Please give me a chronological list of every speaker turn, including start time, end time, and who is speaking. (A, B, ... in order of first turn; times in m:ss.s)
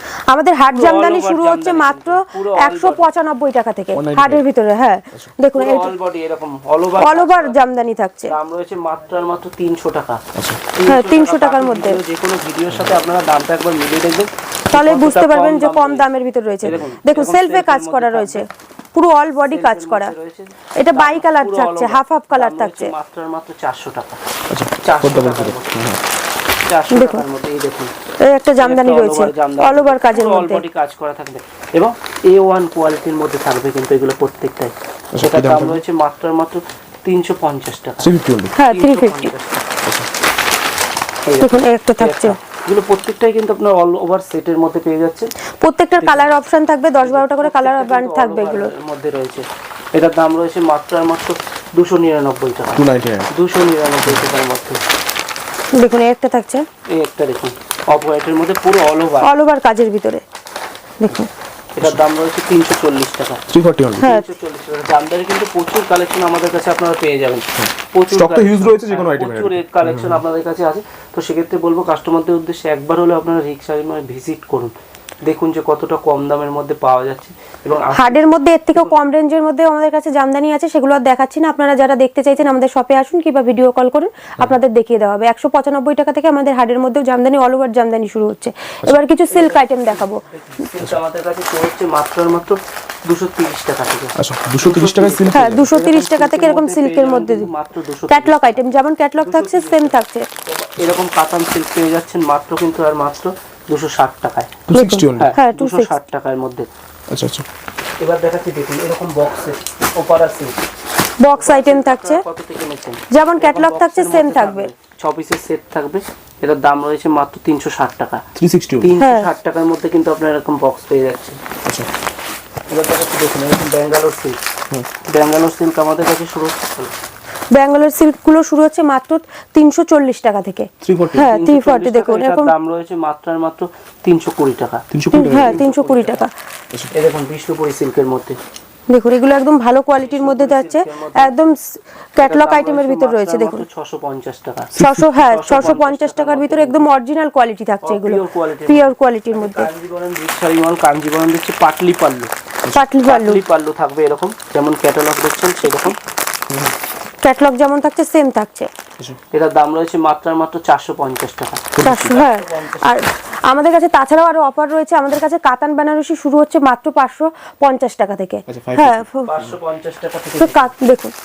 0:00.3-0:05.9 A
0:00.7-0:03.1 B
0:04.0-0:04.4 C
0:05.5-0:07.6 B
0:07.0-0:08.3 A
0:08.3-0:10.2 B
0:10.4-0:10.6 C
0:10.7-0:16.1 B
0:10.9-0:12.0 A
0:14.7-0:20.1 A
0:16.6-0:18.4 B
0:19.4-0:24.2 B
0:20.8-0:22.9 A
0:24.5-0:26.0 C
0:24.8-0:25.8 B
0:26.7-0:27.9 B
0:26.9-0:27.2 A
0:28.2-0:30.6 A
0:28.6-0:38.1 B
0:35.1-0:35.8 C
0:38.0-0:38.6 C
0:38.6-0:39.3 A
0:38.7-0:39.6 B
0:41.2-0:45.3 B
0:41.4-0:42.4 A
0:45.6-0:48.7 A
0:46.0-0:46.3 B
0:47.0-0:54.8 B
0:52.8-0:53.3 C
0:55.8-0:56.6 A
0:56.9-0:59.3 B
0:59.2-1:00.2 A
1:01.0-1:01.3 A
1:01.8-1:03.4 B
1:03.5-1:04.1 C
1:04.0-1:04.3 A
1:04.0-1:19.0 B
1:07.6-1:10.2 C
1:18.0-1:30.2 A
1:29.3-1:44.5 B
1:34.2-1:35.7 C
1:35.3-1:37.5 A
1:38.1-1:40.3 A
1:44.7-1:45.3 C
1:44.7-1:46.0 A
1:45.2-1:46.7 B
1:47.1-1:47.4 C
1:48.0-1:50.6 B
1:51.2-1:52.2 A
1:51.4-1:58.2 B
1:53.1-1:54.7 A
1:58.4-1:58.9 C
1:58.8-2:01.4 B
1:59.0-1:59.3 A
2:02.7-2:04.4 B
2:05.1-2:06.9 B
2:07.5-2:12.5 A
2:10.8-2:11.3 C
2:11.2-2:16.3 B
2:14.9-2:15.6 C
2:15.1-2:16.3 A
2:16.9-2:18.4 B
2:18.9-2:23.6 A
2:20.0-2:21.3 B
2:22.2-2:26.9 B
2:24.7-2:25.2 C
2:24.8-2:29.7 A
2:27.8-2:32.3 B
2:32.7-2:33.4 A
2:33.0-2:36.0 B
2:36.5-2:36.8 C
2:37.2-2:38.7 A
2:39.3-2:43.0 B
2:41.8-2:42.2 C
2:41.8-2:49.3 A
2:48.5-2:49.6 C
2:49.3-2:50.7 B
2:50.4-2:51.1 A